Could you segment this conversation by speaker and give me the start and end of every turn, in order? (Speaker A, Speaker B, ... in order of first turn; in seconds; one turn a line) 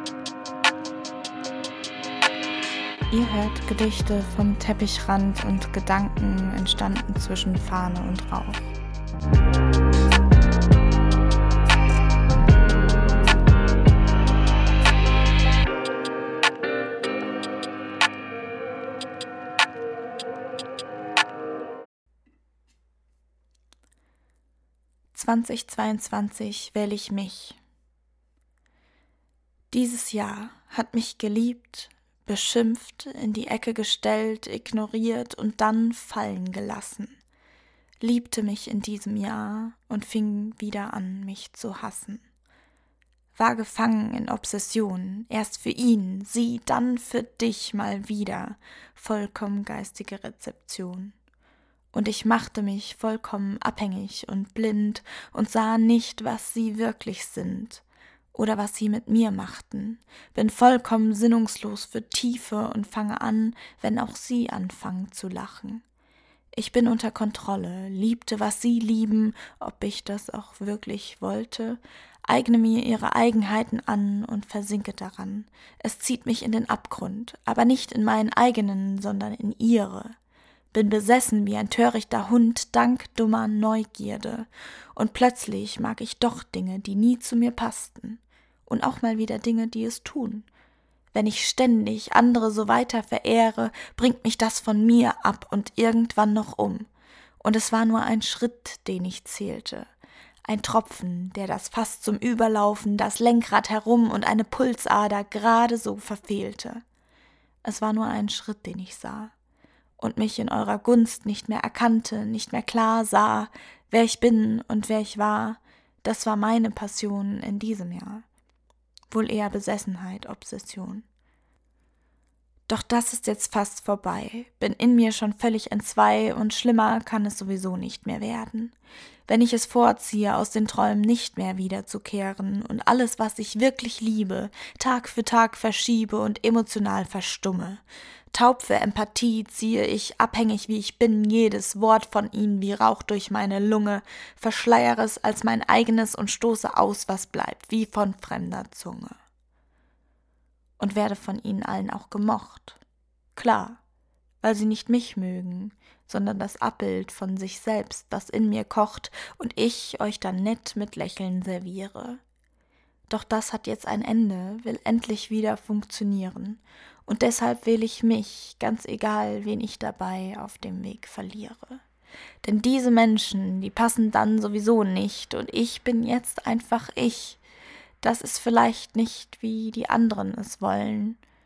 Speaker A: 3.1-8.7
Speaker A: 25.1-27.6
Speaker A: 29.7-37.2
Speaker A: 38.0-42.2
Speaker A: 43.4-51.1
Speaker A: 51.9-65.8
Speaker A: 66.5-80.2
Speaker A: 80.7-90.5
Speaker A: 91.1-96.9
Speaker A: 97.4-99.9
Speaker A: 100.5-106.8
Speaker A: 107.6-109.3
Speaker A: 110.0-118.3
Speaker A: 119.1-121.1
Speaker A: 122.7-128.7
Speaker A: 129.3-149.2
Speaker A: 150.8-152.8
Speaker A: 153.4-153.8
Speaker A: 154.4-162.2
Speaker A: 163.1-171.8
Speaker A: 172.4-177.4
Speaker A: 178.0-181.2